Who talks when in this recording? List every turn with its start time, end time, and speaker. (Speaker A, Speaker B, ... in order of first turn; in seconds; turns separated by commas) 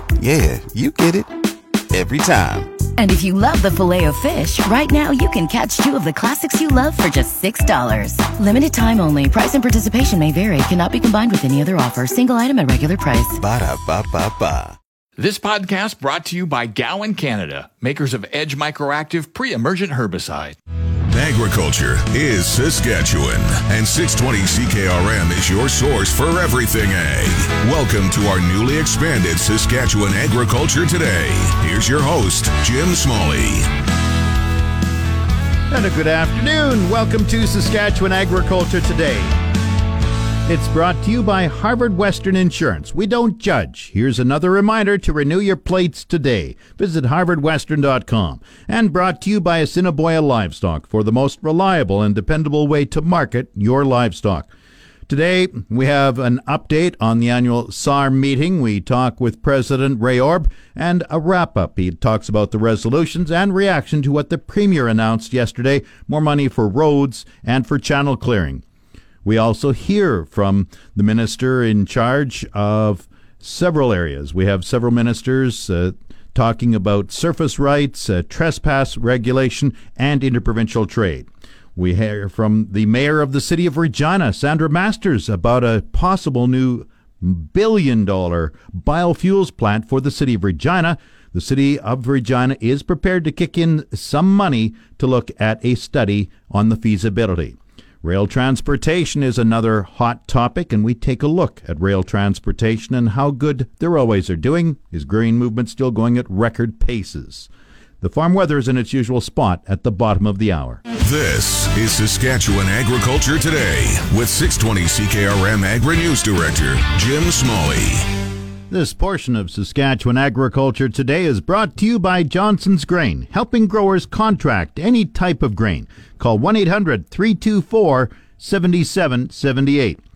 Speaker A: 0.2-1.3, Speaker A: 1.9-2.8, Speaker B: 3.0-13.3, Speaker A: 13.3-14.8, Speaker C: 15.2-20.6, Speaker D: 21.1-33.7, Speaker E: 35.7-39.3, Speaker E: 40.5-54.5, Speaker E: 55.1-68.6, Speaker E: 69.2-107.5, Speaker E: 108.0-110.8, Speaker D: 111.0-118.1, Speaker E: 118.7-130.0